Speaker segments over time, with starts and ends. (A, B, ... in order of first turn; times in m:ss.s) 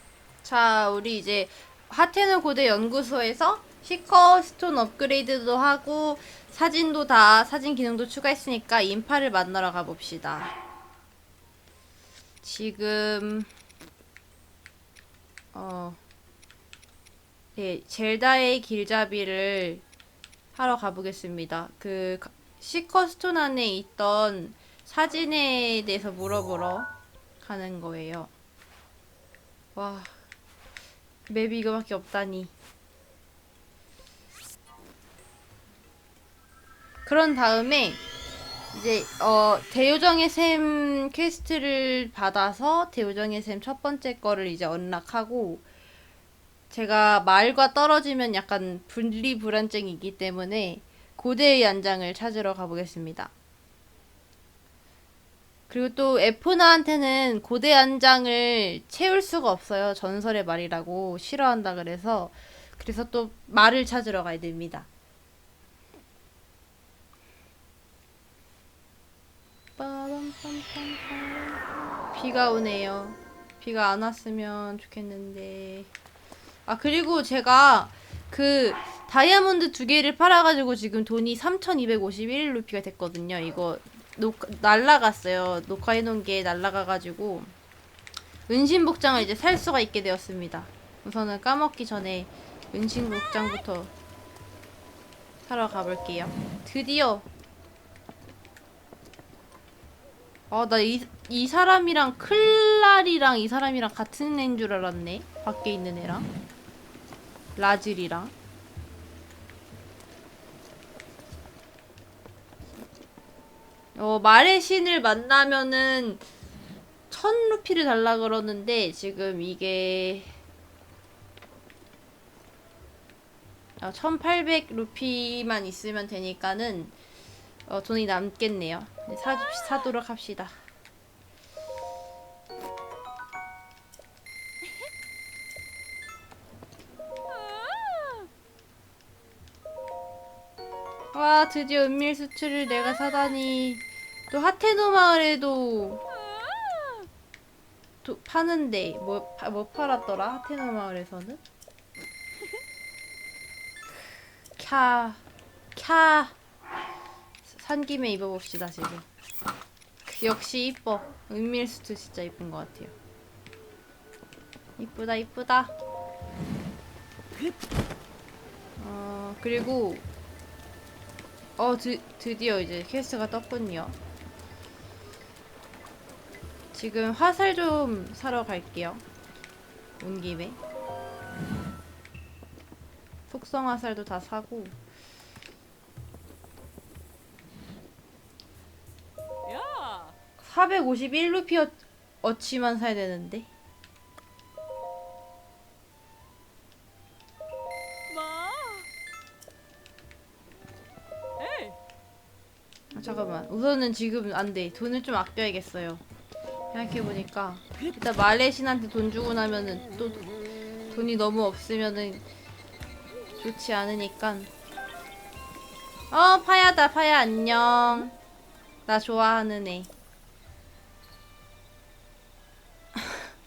0:00.4-0:10.5 A
0:12.4-0:13.5 A
0:15.5-0:16.0 A
0:17.6-0:19.8 A
0:20.5-0:26.9 A
0:27.4-0:28.3 A
0:29.7-0:30.1 A
0:31.3-0:32.5 A
0:37.0-0:38.0 A
0:38.7-0:45.6 A
0:46.7-0:53.3 A
0:55.7-1:04.9 A
1:09.8-1:15.9 A
1:16.7-1:27.5 A
1:28.5-1:33.9 A
1:35.5-1:37.3 A
1:40.5-1:46.3 A
1:47.6-1:48.3 A
1:53.9-1:56.2 A
1:57.1-2:00.4 A
2:03.8-2:06.9 A
2:07.7-2:10.5 A
2:17.5-2:18.2 B
2:21.1-2:26.0 A
2:26.5-2:26.8 B
2:28.0-2:31.4 A
2:34.6-2:35.2 A
2:35.7-2:36.4 A
2:37.4-2:39.0 A
2:40.0-2:42.9 A
2:44.8-2:45.7 A
2:48.8-2:50.0 A
2:51.6-2:54.0 A
2:56.7-2:59.0 A
3:00.0-3:00.6 A
3:03.3-3:04.8 A
3:09.5-3:10.1 B
3:10.4-3:13.5 A
3:18.1-3:18.9 B
3:21.4-3:21.8 B
3:22.9-3:26.0 A
3:26.7-3:30.2 A
3:30.9-3:32.2 A
3:33.4-3:34.5 A
3:36.1-3:38.2 A
3:38.9-3:39.9 A
3:43.0-3:43.3 A